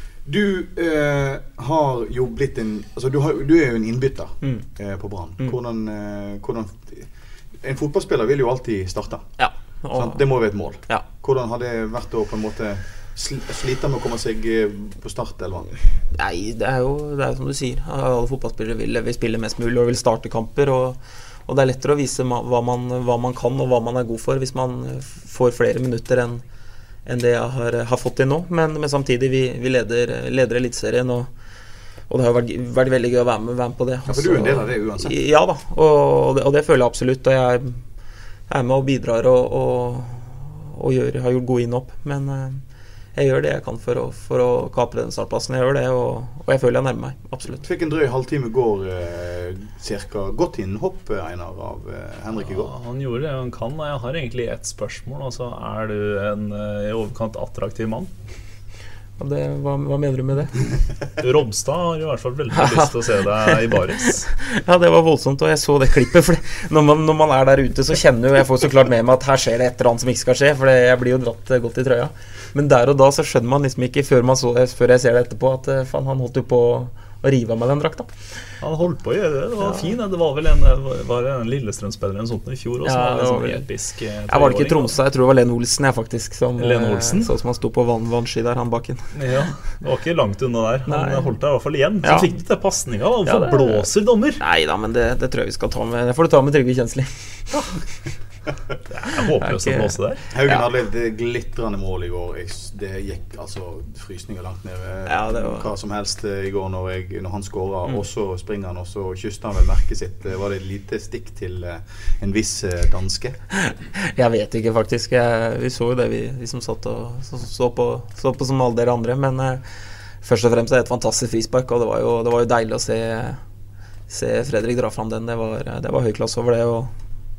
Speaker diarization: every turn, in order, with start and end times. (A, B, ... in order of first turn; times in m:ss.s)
0:00.2-0:07.1 A
0:07.6-0:09.3 A
0:09.4-0:11.0 B
0:09.9-0:15.7 A
0:16.1-0:26.4 B
0:27.0-0:31.3 B
0:32.1-0:37.8 B
0:34.1-0:35.2 A
0:38.5-0:42.6 B
0:43.1-0:47.6 B
0:47.6-0:52.7 A
0:52.4-0:58.1 C
0:59.2-1:00.6 B
1:01.2-1:04.3 C
1:02.6-1:02.9 B
1:04.2-1:18.6 B
1:18.6-1:24.9 C
1:22.8-1:29.1 B
1:26.6-1:27.3 C
1:29.1-1:34.4 C
1:30.9-1:31.3 B
1:32.0-1:32.3 B
1:33.2-1:33.9 B
1:34.4-1:37.8 B
1:38.9-1:40.2 C
1:39.4-1:40.6 B
1:40.3-1:53.4 A
1:45.0-1:45.7 B
1:53.6-1:59.7 B
2:00.2-2:03.4 B
2:04.1-2:06.9 B